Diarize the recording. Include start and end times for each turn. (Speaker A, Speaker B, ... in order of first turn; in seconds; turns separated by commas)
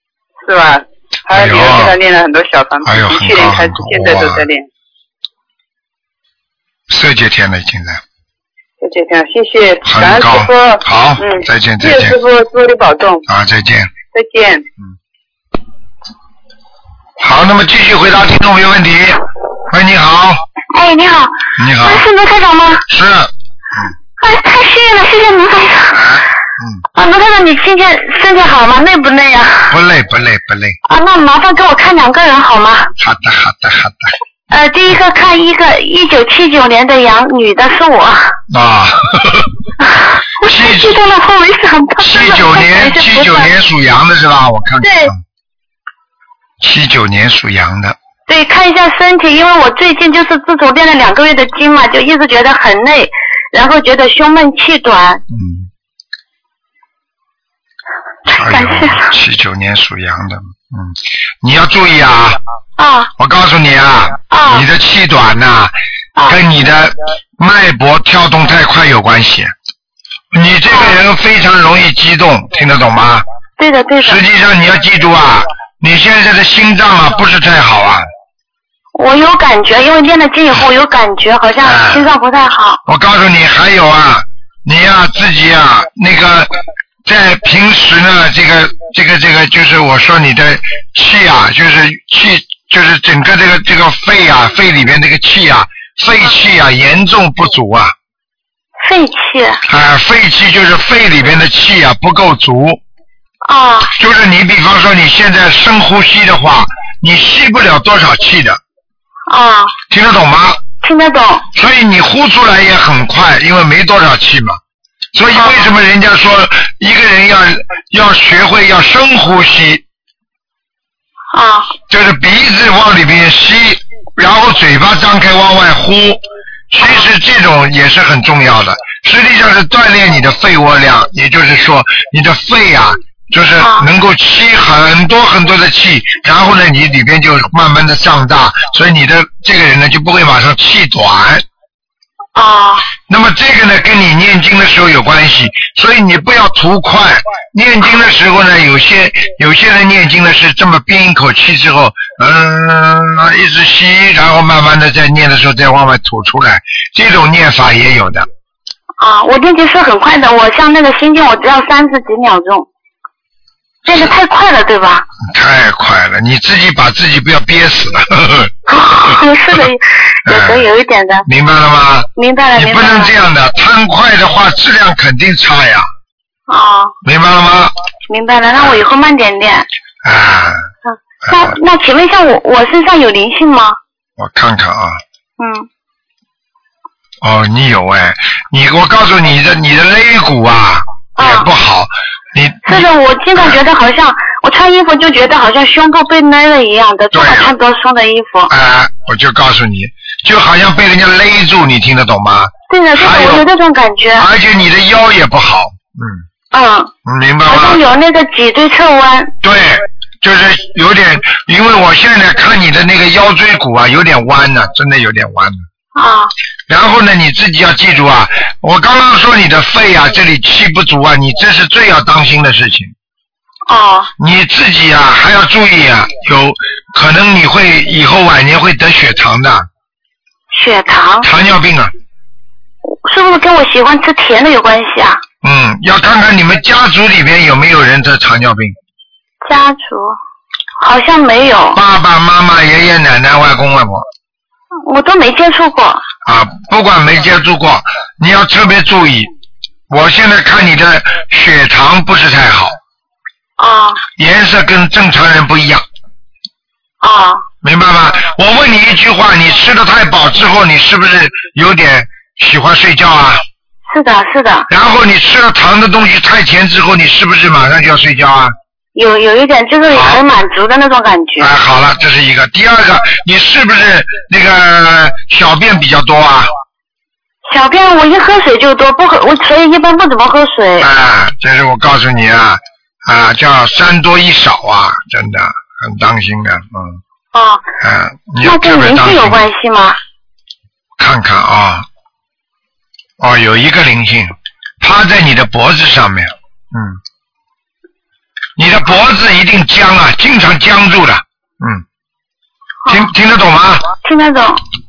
Speaker A: 0.4-4.7, Speaker B: 1.3-2.0, Speaker B: 2.9-4.5, Speaker B: 6.9-8.0, Speaker A: 8.8-13.3, Speaker B: 9.8-12.2, Speaker B: 13.3-13.9, Speaker A: 14.1-14.7, Speaker B: 17.2-20.4, Speaker C: 20.7-22.8, Speaker B: 21.6-22.1, Speaker B: 22.9-23.9, Speaker C: 24.2-26.1, Speaker B: 25.9-26.8, Speaker C: 27.0-29.8, Speaker B: 29.7-30.8, Speaker C: 30.9-32.9, Speaker B: 33.0-34.1, Speaker C: 34.5-38.4, Speaker B: 38.5-39.5, Speaker C: 39.8-43.5, Speaker B: 40.4-41.0, Speaker B: 42.0-45.2, Speaker C: 44.8-45.1, Speaker B: 46.6-48.0, Speaker C: 48.3-55.2, Speaker B: 55.3-55.7, Speaker C: 58.3-59.1, Speaker B: 58.3-62.4, Speaker C: 62.8-63.1, Speaker B: 63.2-69.5, Speaker C: 64.3-64.7, Speaker B: 70.3-73.2, Speaker C: 70.7-71.0, Speaker C: 73.6-74.2, Speaker B: 74.0-78.0, Speaker C: 79.0-82.8, Speaker B: 81.6-82.1, Speaker B: 82.9-86.5, Speaker B: 87.1-97.9, Speaker C: 98.8-99.6, Speaker B: 99.7-102.8, Speaker C: 103.5-103.9, Speaker B: 104.0-108.6, Speaker C: 109.3-109.8, Speaker B: 109.9-110.6, Speaker C: 110.8-111.5, Speaker B: 111.5-114.6, Speaker B: 115.1-119.8, Speaker C: 115.3-115.7, Speaker C: 121.3-121.7, Speaker B: 121.9-141.4, Speaker C: 126.8-127.1, Speaker C: 133.6-133.9, Speaker C: 142.4-142.9, Speaker B: 143.0-158.3, Speaker C: 159.0-162.7, Speaker C: 163.8-165.1, Speaker B: 165.3-169.6, Speaker C: 168.7-171.3, Speaker B: 170.3-170.7, Speaker B: 171.3-175.9, Speaker C: 172.2-173.1, Speaker C: 176.5-176.9, Speaker B: 177.0-177.7, Speaker C: 178.1-179.7, Speaker B: 178.6-178.8, Speaker B: 180.0-180.6, Speaker C: 180.9-183.8, Speaker B: 181.3-181.6, Speaker B: 184.2-185.0, Speaker C: 185.4-185.7, Speaker B: 187.2-193.6, Speaker C: 191.2-191.5, Speaker C: 192.7-198.5, Speaker B: 197.1-197.5, Speaker B: 198.5-203.5, Speaker C: 202.7-204.3, Speaker B: 204.2-206.2, Speaker C: 206.5-206.9, Speaker B: 207.1-207.8, Speaker C: 207.5-209.3, Speaker B: 209.4-215.6, Speaker C: 215.9-216.3, Speaker B: 216.7-222.9, Speaker C: 223.7-224.1, Speaker B: 224.2-229.7, Speaker C: 230.5-231.3, Speaker B: 231.2-231.9, Speaker C: 233.0-235.2, Speaker B: 235.4-238.7, Speaker C: 239.4-240.2, Speaker C: 240.8-241.8, Speaker B: 241.7-244.1, Speaker C: 244.9-246.0, Speaker B: 246.2-249.3, Speaker B: 249.9-252.8, Speaker C: 253.6-254.0, Speaker B: 254.2-255.8, Speaker C: 257.0-257.4, Speaker B: 257.6-263.4, Speaker C: 263.9-264.7, Speaker B: 264.7-268.6, Speaker C: 268.9-271.5, Speaker B: 269.9-270.2, Speaker B: 271.4-276.5, Speaker C: 277.5-280.9, Speaker B: 280.8-287.0, Speaker C: 287.3-287.6, Speaker B: 287.8-289.4, Speaker C: 288.4-290.0, Speaker B: 291.0-291.9, Speaker B: 293.2-297.0, Speaker B: 298.6-301.8, Speaker C: 302.9-303.1, Speaker B: 302.9-303.9, Speaker C: 304.0-304.6